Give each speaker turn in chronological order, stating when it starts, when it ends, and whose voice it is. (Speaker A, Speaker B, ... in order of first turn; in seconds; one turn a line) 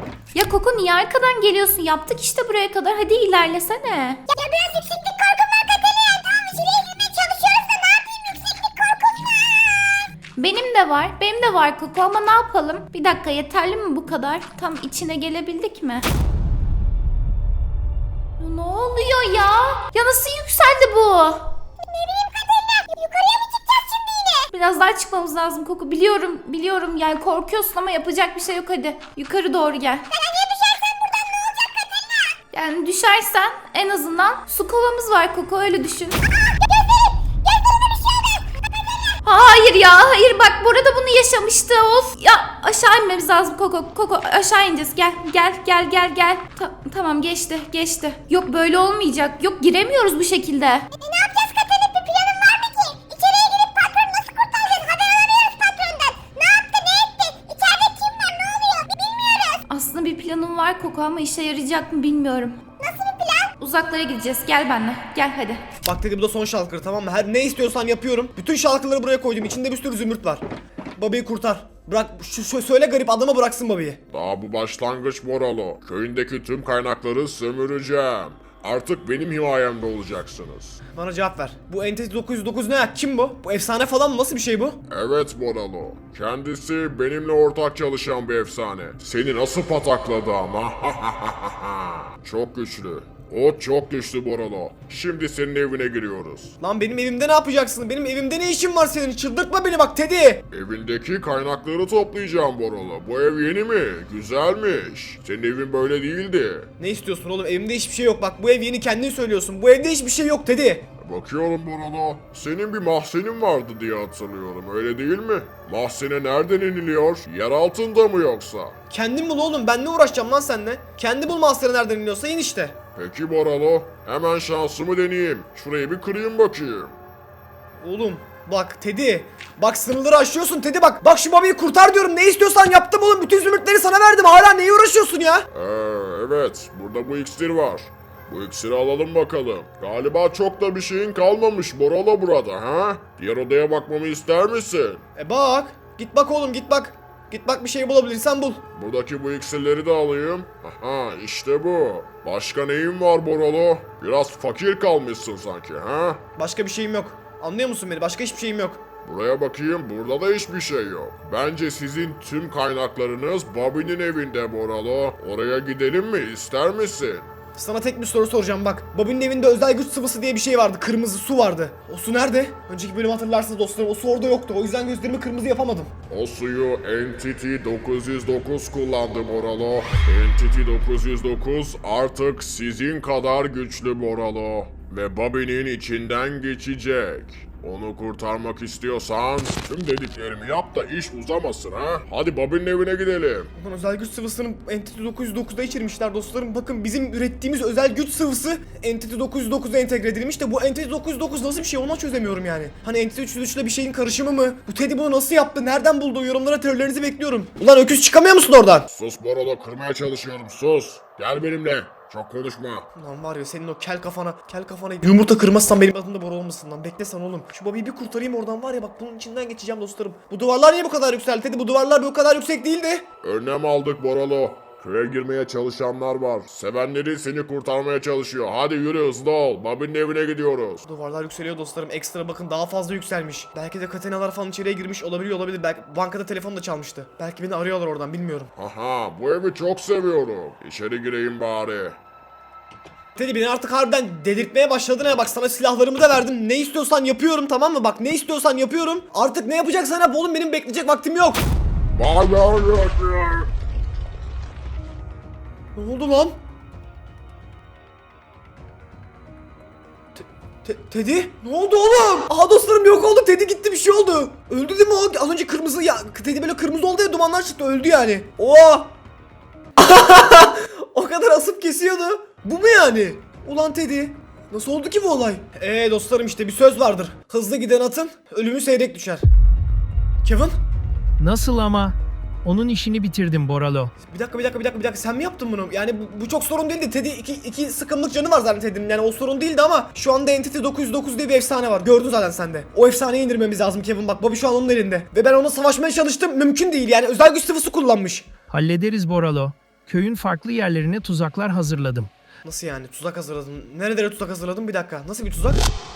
Speaker A: 0.3-4.2
Speaker B: 4.3-10.0
Speaker A: 10.4-16.1
Speaker A: 18.4-21.6
Speaker B: 21.8-24.5
Speaker A: 24.5-30.1
Speaker B: 30.1-32.4
Speaker A: 32.5-36.2
Speaker B: 36.3-39.2
Speaker A: 39.2-50.9
Speaker B: 51.0-59.6
Speaker A: 59.7-62.6
Speaker B: 62.8-63.5
Speaker A: 63.6-65.7
Speaker C: 65.8-70.4
Speaker C: 71.0-74.0
Speaker D: 74.1-80.8
Speaker C: 80.9-84.8
Speaker D: 84.9-96.5
Speaker C: 96.6-100.4
Speaker D: 100.5-106.7
Speaker C: 106.8-110.9
Speaker D: 111.0-118.8
Speaker C: 118.9-122.8
Speaker D: 123.0-126.9
Speaker C: 127.8-135.5
Speaker D: 135.5-145.0
Speaker C: 145.2-148.6
Speaker D: 148.8-156.2
Speaker C: 156.4-158.8
Speaker D: 159.1-167.3
Speaker C: 167.6-175.9
Speaker D: 176.1-193.5
Speaker C: 193.6-208.9
Speaker D: 208.9-212.9
Speaker C: 212.9-223.1
Speaker D: 223.2-230.9
Speaker C: 230.9-238.5
Speaker D: 238.6-242.0
Speaker C: 243.2-251.5
Speaker D: 251.9-253.5
Speaker C: 255.8-256.4
Speaker C: 260.2-268.9
Speaker C: 269.8-279.2
Speaker C: 280.2-280.5
Speaker E: 281.2-283.9
Speaker C: 284.0-298.3
Speaker E: 298.5-302.1
Speaker C: 302.4-305.6